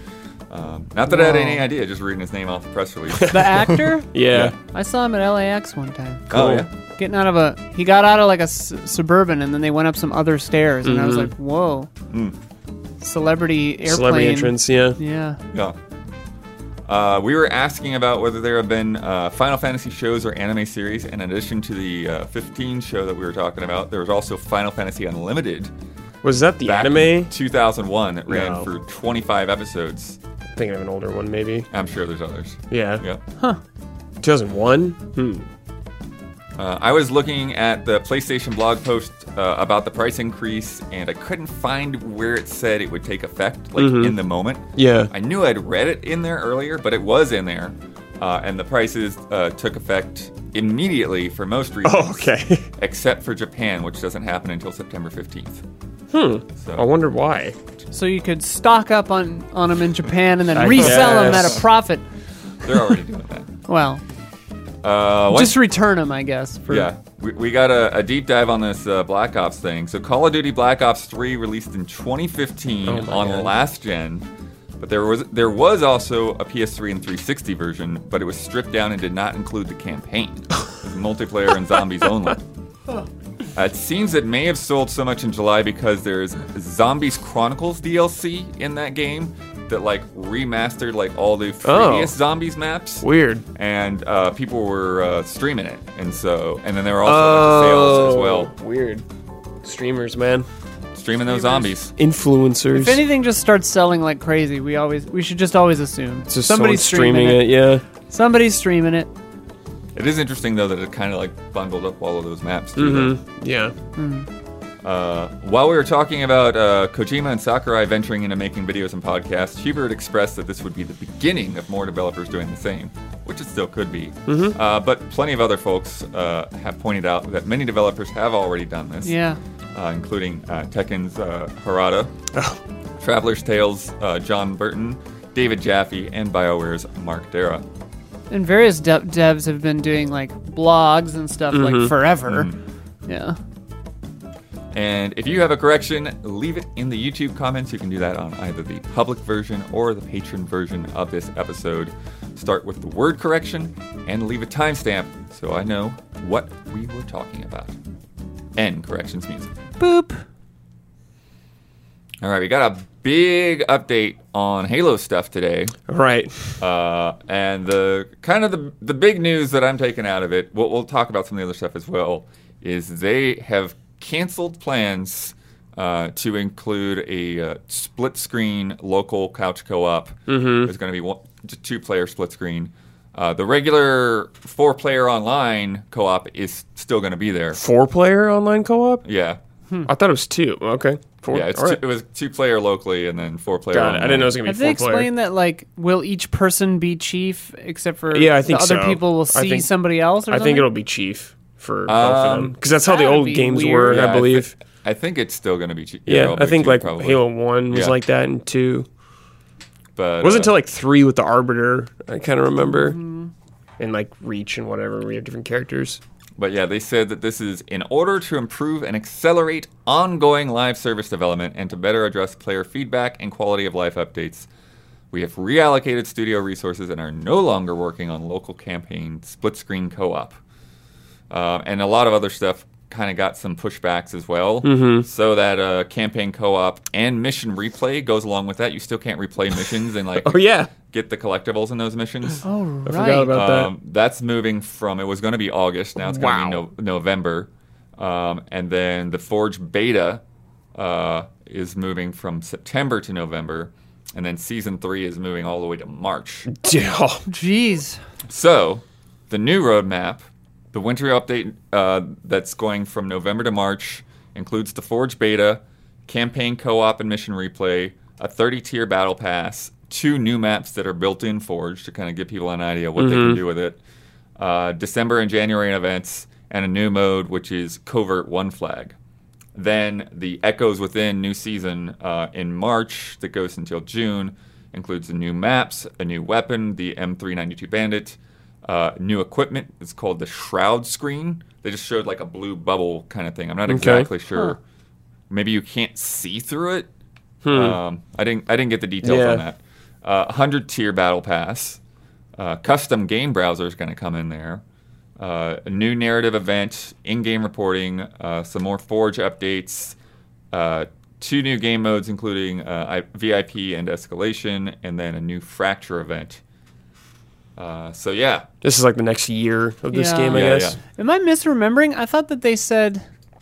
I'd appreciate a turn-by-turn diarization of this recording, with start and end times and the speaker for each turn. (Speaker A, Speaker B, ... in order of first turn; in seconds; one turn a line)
Speaker A: 0.5-4.5
Speaker B: 1.1-1.6
Speaker C: 3.1-3.6
Speaker B: 3.3-6.4
Speaker C: 4.1-4.5
Speaker A: 6.3-6.7
Speaker C: 6.3-6.7
Speaker B: 7.0-11.9
Speaker C: 10.8-11.3
Speaker A: 12.1-12.3
Speaker B: 13.0-15.4
Speaker C: 13.8-15.0
Speaker A: 16.9-25.7
Speaker C: 26.2-27.3
Speaker A: 26.6-30.2
Speaker C: 28.3-28.7
Speaker C: 30.6-31.7
Speaker A: 31.7-33.2
Speaker C: 32.7-33.0
Speaker C: 34.2-35.4
Speaker A: 36.6-55.6
Speaker C: 43.8-44.1
Speaker C: 44.8-45.1
Speaker C: 51.8-52.7
Speaker C: 56.1-57.5
Speaker A: 56.6-56.9
Speaker B: 57.9-62.0
Speaker C: 60.5-61.6
Speaker A: 60.8-61.6
Speaker A: 62.6-63.5
Speaker B: 63.7-64.0
Speaker A: 64.8-65.6
Speaker B: 65.3-66.9
Speaker A: 66.7-74.3
Speaker C: 72.8-73.5
Speaker A: 74.8-82.4
Speaker A: 83.5-98.5
Speaker C: 91.6-92.1
Speaker C: 93.0-93.4
Speaker C: 97.0-99.0
Speaker C: 99.6-100.5
Speaker A: 100.9-101.9
Speaker B: 101.3-101.7
Speaker C: 102.0-103.0
Speaker B: 102.7-107.5
Speaker C: 106.3-107.8
Speaker B: 108.1-109.1
Speaker A: 109.9-113.1
Speaker C: 112.8-113.7
Speaker B: 114.0-114.3
Speaker A: 114.8-129.2
Speaker C: 124.3-124.5
Speaker B: 129.0-129.4
Speaker A: 129.7-132.1
Speaker C: 132.3-132.6
Speaker A: 133.0-137.7
Speaker B: 138.3-142.5
Speaker C: 141.5-141.9
Speaker A: 142.3-142.6
Speaker B: 143.1-143.4
Speaker A: 144.7-157.8
Speaker A: 158.6-159.5
Speaker B: 159.8-160.2
Speaker A: 162.2-165.8
Speaker C: 165.9-166.6
Speaker A: 166.6-187.6
Speaker C: 180.3-180.7
Speaker C: 187.5-189.0
Speaker A: 189.0-189.4
Speaker C: 189.9-191.8
Speaker A: 191.3-194.3
Speaker C: 193.7-195.1
Speaker B: 194.4-200.7
Speaker C: 198.1-199.7
Speaker C: 200.3-204.5
Speaker A: 201.8-202.6
Speaker B: 202.8-204.0
Speaker A: 203.9-208.0
Speaker C: 206.1-208.9
Speaker A: 209.9-210.5
Speaker C: 210.2-213.0
Speaker B: 212.6-213.3
Speaker C: 213.8-216.0
Speaker A: 216.4-224.5
Speaker A: 225.1-230.4
Speaker A: 231.3-242.4
Speaker C: 234.6-235.1
Speaker C: 240.1-240.7
Speaker B: 242.4-243.3
Speaker C: 242.8-243.7
Speaker A: 243.3-250.2
Speaker C: 246.0-246.6
Speaker A: 250.7-256.5
Speaker C: 256.5-257.2
Speaker B: 257.3-258.0
Speaker A: 258.3-273.8
Speaker C: 273.0-273.4
Speaker A: 274.4-278.9
Speaker A: 279.5-294.6
Speaker C: 293.7-294.1
Speaker A: 295.3-296.9
Speaker C: 297.4-297.8
Speaker A: 297.5-301.8
Speaker C: 299.0-299.4
Speaker A: 302.4-304.6
Speaker A: 305.2-310.0
Speaker A: 310.5-316.4
Speaker A: 317.6-318.5
Speaker C: 318.6-320.8
Speaker B: 319.9-323.0
Speaker A: 320.3-320.8